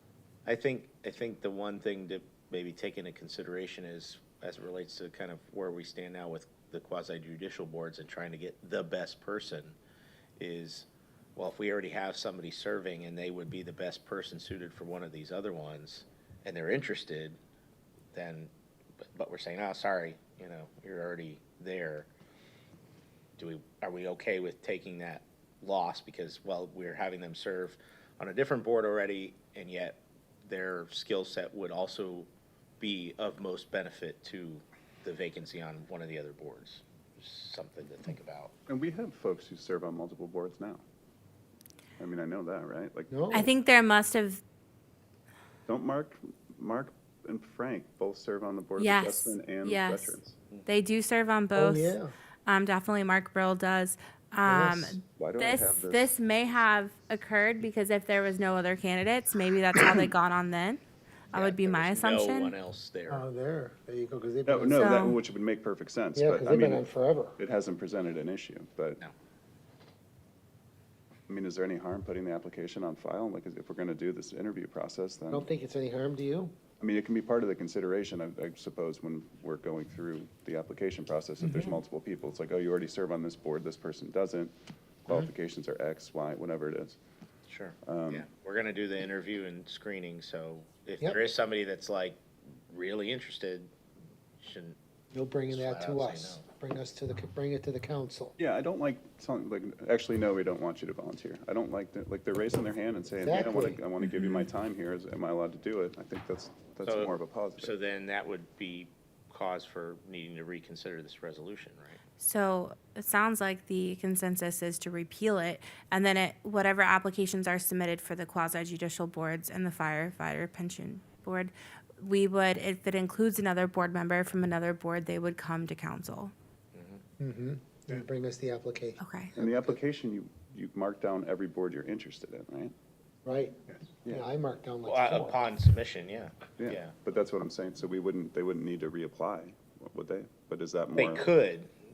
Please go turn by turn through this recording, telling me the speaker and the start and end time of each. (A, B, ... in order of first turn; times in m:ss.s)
0:00.4-0:09.8 A
0:10.4-0:17.4 A
0:18.1-0:18.5 A
0:19.0-0:22.1 A
0:23.4-0:32.3 A
0:32.8-0:38.5 A
0:38.7-0:40.8 B
0:42.0-0:43.1 B
0:43.1-0:43.5 C
0:43.3-0:44.4 D
0:45.7-0:50.4 B
0:48.8-1:02.6 D
0:51.5-0:52.1 C
0:54.4-0:55.0 C
0:55.2-0:56.1 B
1:01.3-1:03.2 A
1:03.1-1:04.9 C
1:04.4-1:06.8 B
1:04.8-1:05.2 D
1:06.2-1:07.4 C
1:07.4-1:09.0 B
1:11.3-1:15.4 B
1:15.3-1:16.5 C
1:16.8-1:27.0 B
1:21.4-1:21.8 C
1:27.5-1:33.7 A
1:27.8-1:28.3 B
1:34.4-1:34.8 A
1:35.1-1:38.4 C
1:35.5-1:36.4 A
1:38.4-1:47.7 B
1:43.2-1:43.8 C
1:44.1-1:44.5 D
1:46.8-1:52.0 A
1:52.2-2:06.3 D
2:06.7-2:07.0 A
2:07.2-2:09.8 C
2:09.0-2:09.3 D
2:09.4-2:12.7 B
2:13.2-2:15.4 C
2:14.8-2:16.9 A
2:16.6-2:21.3 B
2:21.0-2:21.7 A